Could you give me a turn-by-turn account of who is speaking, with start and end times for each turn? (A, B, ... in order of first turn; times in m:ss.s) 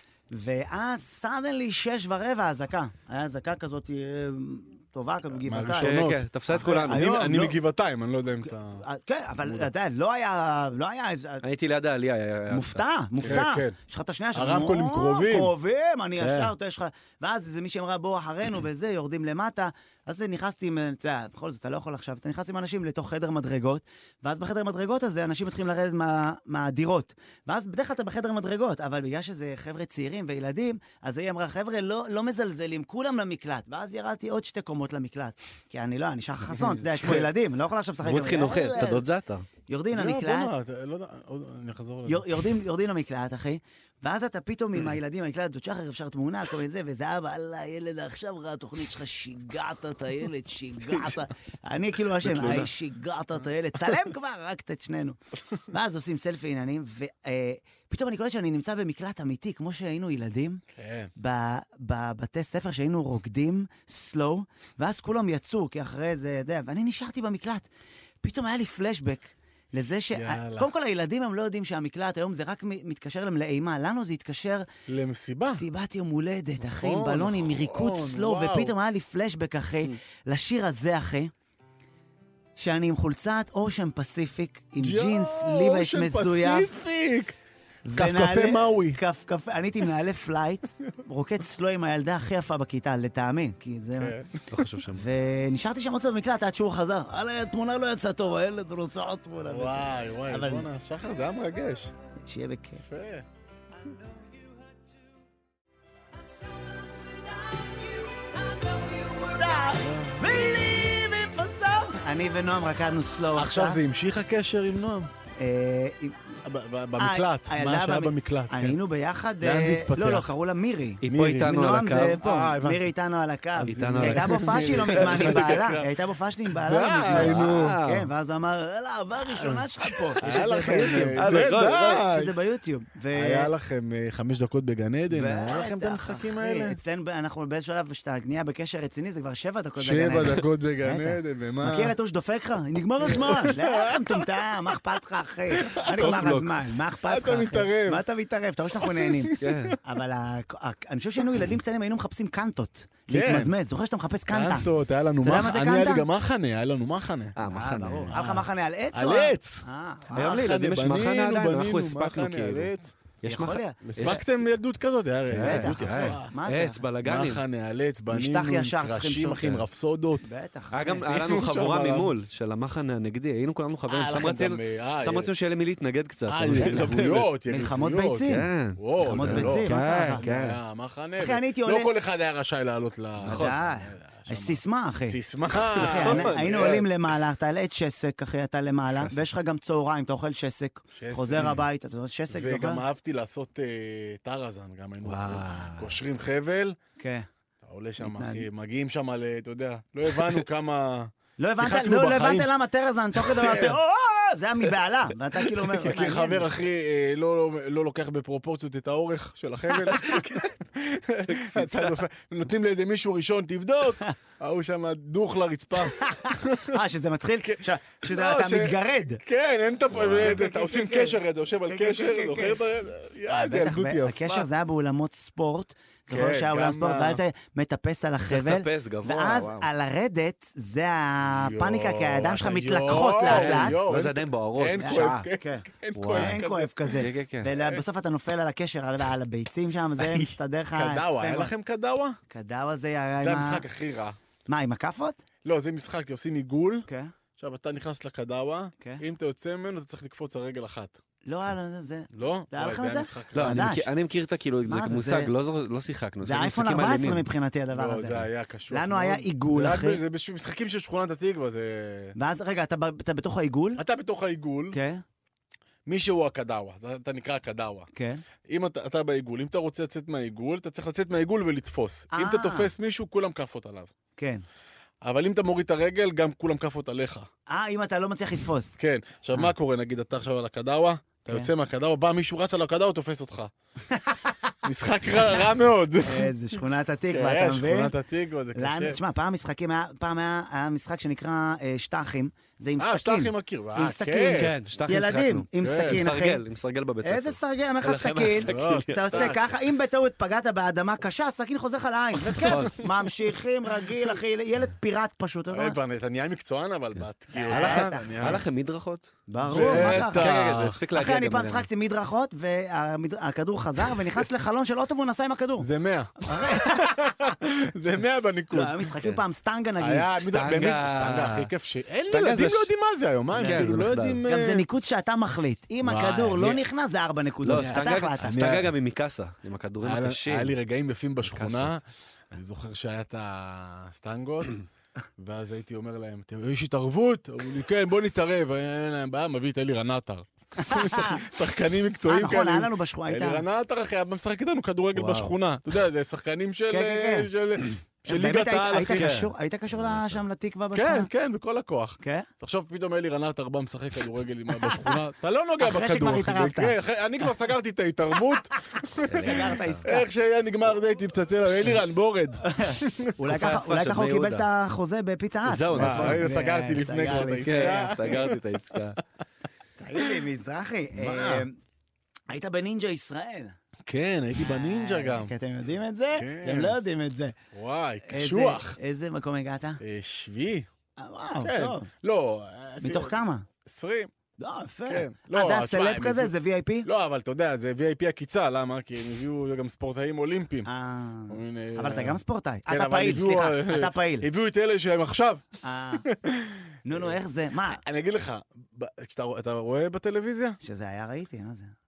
0:00.3-0:05.9 A
0:05.3-0:08.8 B
0:05.8-0:07.0 C
0:06.5-0:07.6 A
0:08.4-0:11.4 A
0:11.4-0:13.4 C
0:12.5-0:39.0 A
0:13.2-0:13.8 B
0:14.3-0:15.5 B
0:16.2-0:16.5 C
0:37.0-0:37.3 C
0:38.0-0:39.4 C
0:39.7-0:40.5 A
0:39.9-0:42.3 B
0:42.0-0:55.2 A
0:52.2-0:52.7 B
0:55.7-1:00.6 A
1:00.7-1:01.1 B
1:01.2-1:07.7 A
1:08.2-1:14.6 A
1:09.9-1:10.7 B
1:14.9-1:15.6 B
1:15.5-1:21.3 A
1:16.6-1:18.7 B
1:22.6-1:26.7 A
1:24.8-1:27.4 B
1:27.8-1:34.1 A
1:27.9-1:29.0 B
1:34.0-1:34.6 B
1:34.5-1:35.0 C
1:34.9-1:40.7 A
1:39.4-1:41.9 B
1:42.2-1:42.8 A
1:42.8-1:43.2 B
1:48.4-1:53.8 A
1:49.8-1:50.2 B
1:53.4-1:55.1 B
1:55.4-1:56.2 A
1:56.4-1:58.8 B
1:57.0-2:13.5 A
1:59.4-2:00.3 B
2:01.0-2:02.2 C
2:01.0-2:01.5 B
2:02.1-2:02.9 B
2:03.5-2:05.9 B
2:03.6-2:05.6 C
2:06.6-2:07.8 B
2:07.1-2:08.1 C
2:09.2-2:12.3 B
2:10.2-2:12.0 C
2:13.1-2:16.8 B
2:15.1-2:34.7 A
2:19.8-2:21.9 B
2:23.0-2:24.7 B
2:25.5-2:26.4 B
2:26.0-2:26.5 C
2:27.0-2:28.0 B
2:28.8-2:29.8 B
2:29.4-2:29.8 C
2:33.1-2:33.5 B
2:34.3-2:37.4 B
2:35.2-2:36.0 A
2:37.4-2:38.4 C
2:37.5-2:40.4 A
2:38.9-2:42.9 B
2:40.1-2:44.2 C
2:43.2-2:44.2 A
2:43.8-2:46.3 B
2:45.3-2:46.8 A
2:45.3-2:47.4 C
2:47.0-2:50.2 B
2:48.1-2:49.5 A
2:50.2-2:51.1 A
2:50.7-2:57.3 C
2:50.9-2:52.1 B
2:53.9-2:55.3 B
2:56.2-3:06.9 B
2:57.5-2:58.4 A
2:58.3-3:00.6 C
2:59.0-3:00.2 A
3:01.2-3:01.9 A
3:03.2-3:05.2 A
3:03.2-3:03.6 C
3:05.8-3:12.8 A
3:05.8-3:06.8 C
3:10.9-3:11.6 B
3:12.3-3:16.8 B
3:15.0-3:15.9 C
3:17.0-3:17.3 A
3:17.6-3:22.5 B
3:18.0-3:18.4 A
3:21.4-3:26.5 A
3:23.2-3:23.8 B
3:25.4-3:36.7 B
3:31.3-3:31.9 C
3:35.8-3:39.2 A
3:37.4-3:44.5 B
3:39.9-3:40.4 C
3:40.2-3:41.2 A
3:41.7-3:53.7 A
3:46.1-3:47.2 B
3:48.3-3:49.7 C
3:51.2-3:56.9 B
3:53.2-3:55.2 C
3:54.8-4:01.5 A
3:55.9-3:57.5 C
4:00.0-4:02.2 B
4:02.3-4:03.6 A
4:03.2-4:04.2 B
4:04.5-4:05.2 A
4:05.4-4:06.9 B
4:06.9-4:07.1 A
4:07.4-4:11.0 B
4:11.2-4:13.9 A
4:12.1-4:13.8 B
4:13.3-4:17.2 C
4:14.7-4:15.3 A
4:16.2-4:20.0 A
4:17.7-4:22.1 B
4:22.2-4:23.8 A
4:23.8-4:24.8 B
4:24.7-4:25.0 A
4:25.8-4:27.9 B
4:27.9-4:28.2 A
4:28.5-4:33.9 B
4:32.1-4:32.7 A
4:34.2-4:34.4 A
4:35.0-4:37.3 B
4:37.5-4:38.8 A
4:38.8-4:43.5 B
4:43.9-4:44.2 A
4:44.6-4:46.3 B
4:46.0-4:47.9 A
4:47.1-4:49.0 B
4:48.5-4:56.4 A
4:52.8-4:54.5 B
4:54.4-4:59.3 C
4:55.6-4:56.0 B
4:57.0-5:05.8 A
4:58.5-4:59.5 B
5:02.3-5:02.8 C
5:05.5-5:08.4 B
5:07.3-5:08.4 A
5:07.5-5:11.7 C
5:09.3-5:10.3 A
5:09.4-5:10.8 B
5:10.9-5:15.7 A
5:15.6-5:18.8 B
5:16.2-5:17.1 A
5:18.5-5:20.1 A
5:19.8-5:24.6 B
5:20.2-5:21.5 C
5:22.1-5:22.7 C
5:23.4-5:23.6 A
5:23.4-5:24.2 C
5:24.3-5:28.5 A
5:25.8-5:26.6 B
5:27.4-5:30.5 C
5:27.5-5:28.7 B
5:29.8-5:34.6 B
5:31.3-5:31.7 C
5:35.2-5:49.2 B
5:40.6-5:41.2 A
5:42.1-5:43.4 A
5:44.9-5:45.3 C
5:46.7-5:47.3 A
5:48.1-5:51.1 A
5:48.8-5:50.2 C
5:50.7-6:03.1 B
5:52.0-5:52.3 A
5:54.6-5:54.9 A
5:55.6-5:56.8 A
5:59.1-5:59.8 C
5:59.2-6:00.1 A
6:02.4-6:08.0 A
6:03.2-6:04.5 C
6:05.4-6:06.3 C
6:05.8-6:08.4 B
6:07.1-6:09.0 C
6:09.8-6:11.6 A
6:10.9-6:11.4 B
6:12.3-6:13.6 A
6:13.8-6:15.3 B
6:14.4-6:17.4 A
6:16.1-6:16.8 B
6:17.5-6:18.8 B
6:18.0-6:19.8 A
6:19.8-6:20.7 B
6:21.0-6:21.9 A
6:21.4-6:24.1 B
6:22.8-6:23.4 A
6:24.4-6:26.9 A
6:24.9-6:26.3 B
6:26.8-6:30.7 B
6:30.6-6:34.3 A
6:31.3-6:35.4 B
6:35.6-6:36.0 A
6:36.0-6:37.2 B
6:36.8-6:37.8 A
6:37.7-6:40.6 B
6:40.6-6:41.7 A